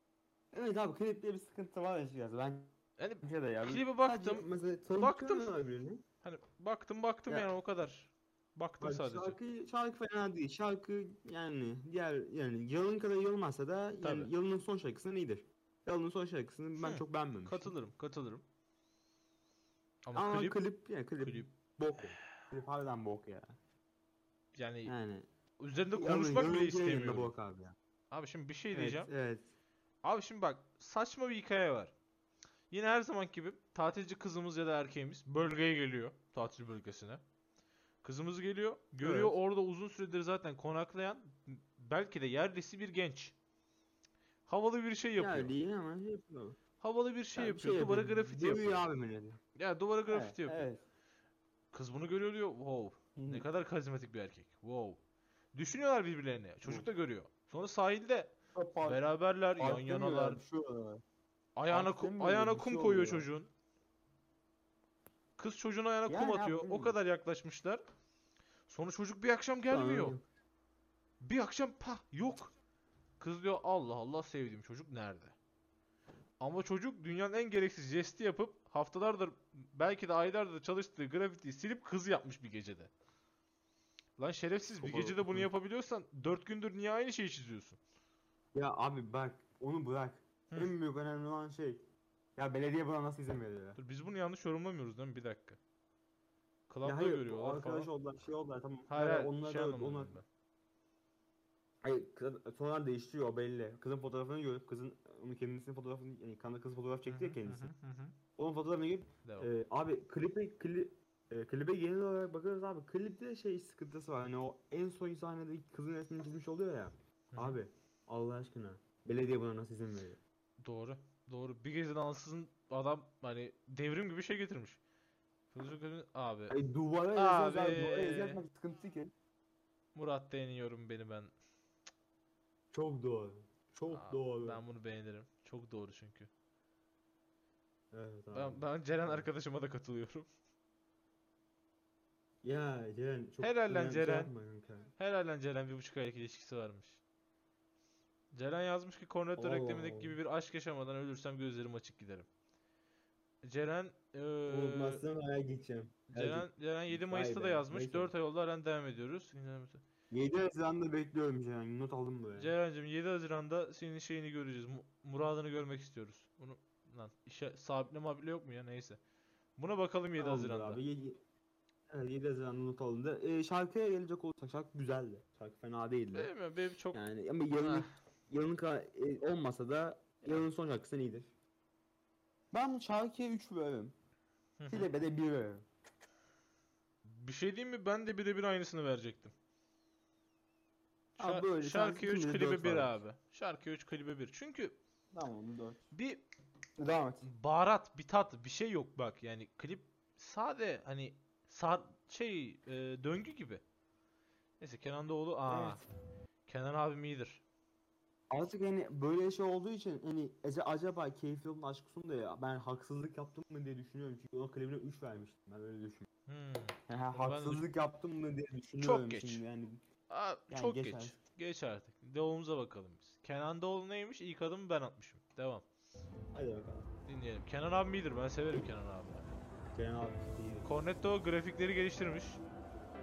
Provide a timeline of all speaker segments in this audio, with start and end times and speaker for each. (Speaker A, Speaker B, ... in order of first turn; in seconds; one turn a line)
Speaker A: 0.5-6.0
Speaker B: 3.0-5.5
Speaker B: 6.2-9.4
Speaker A: 8.8-17.7
Speaker B: 14.0-14.3
Speaker B: 16.8-18.4
Speaker B: 20.0-20.6
Speaker A: 20.1-23.6
Speaker B: 21.2-21.5
Speaker B: 24.6-24.9
Speaker A: 24.9-25.3
Speaker B: 25.6-27.3
Speaker A: 25.9-27.7
Speaker B: 28.1-29.1
Speaker A: 28.7-29.5
Speaker B: 30.0-31.9
Speaker B: 32.7-37.2
Speaker B: 38.0-43.3
Speaker A: 39.0-39.3
Speaker B: 44.5-45.5
Speaker A: 45.2-46.6
Speaker B: 46.8-48.8
Speaker A: 47.3-49.4
Speaker B: 49.5-50.7
Speaker A: 50.1-50.8
Speaker B: 51.7-55.0
Speaker A: 53.1-53.5
Speaker B: 55.5-60.4
Speaker A: 58.5-59.0
Speaker A: 59.5-61.0
Speaker B: 61.5-63.5
Speaker A: 61.7-63.3
Speaker B: 65.4-67.8
Speaker A: 66.1-67.0
Speaker B: 68.7-70.2
Speaker A: 69.7-70.2
Speaker B: 71.2-72.5
Speaker B: 73.2-75.3
Speaker B: 76.4-82.9
Speaker B: 84.2-87.8
Speaker A: 84.8-85.5
Speaker A: 88.5-93.8
Speaker B: 93.8-95.6
Speaker B: 96.7-97.9
Speaker A: 96.8-100.2
Speaker B: 98.9-100.2
Speaker A: 101.8-107.7
Speaker B: 107.1-108.2
Speaker A: 108.4-120.2
Speaker B: 109.2-109.5
Speaker B: 117.3-117.6
Speaker B: 120.6-124.8
Speaker B: 125.5-126.6
Speaker A: 126.5-129.1
Speaker B: 127.1-128.4
Speaker B: 129.9-131.3
Speaker A: 132.7-134.6
Speaker B: 133.9-136.3
Speaker A: 137.9-139.3
Speaker B: 138.3-140.3
Speaker A: 142.4-144.9
Speaker B: 143.4-144.3
Speaker B: 145.0-147.0
Speaker B: 148.3-152.3
Speaker A: 149.4-150.2
Speaker B: 153.4-155.1
Speaker A: 154.5-158.1
Speaker B: 156.1-159.8
Speaker A: 160.1-162.5
Speaker B: 162.4-169.0
Speaker B: 169.6-170.8
Speaker A: 170.2-171.2
Speaker A: 171.9-176.3
Speaker B: 176.1-177.0
Speaker A: 176.9-181.3
Speaker B: 177.6-177.9
Speaker A: 182.5-183.9
Speaker B: 184.6-184.9
Speaker A: 184.7-185.6
Speaker B: 187.0-189.3
Speaker B: 191.2-194.8
Speaker A: 191.2-192.9
Speaker A: 195.1-195.8
Speaker B: 195.9-196.2
Speaker A: 196.8-197.3
Speaker B: 197.2-203.6
Speaker B: 204.6-205.8
Speaker A: 205.5-205.8
Speaker B: 206.5-207.4
Speaker A: 208.3-216.1
Speaker B: 216.3-217.7
Speaker A: 216.9-219.8
Speaker B: 218.8-219.4
Speaker B: 220.1-225.6
Speaker A: 220.5-221.2
Speaker A: 226.3-226.9
Speaker B: 227.1-229.2
Speaker A: 229.7-230.7
Speaker B: 230.6-232.4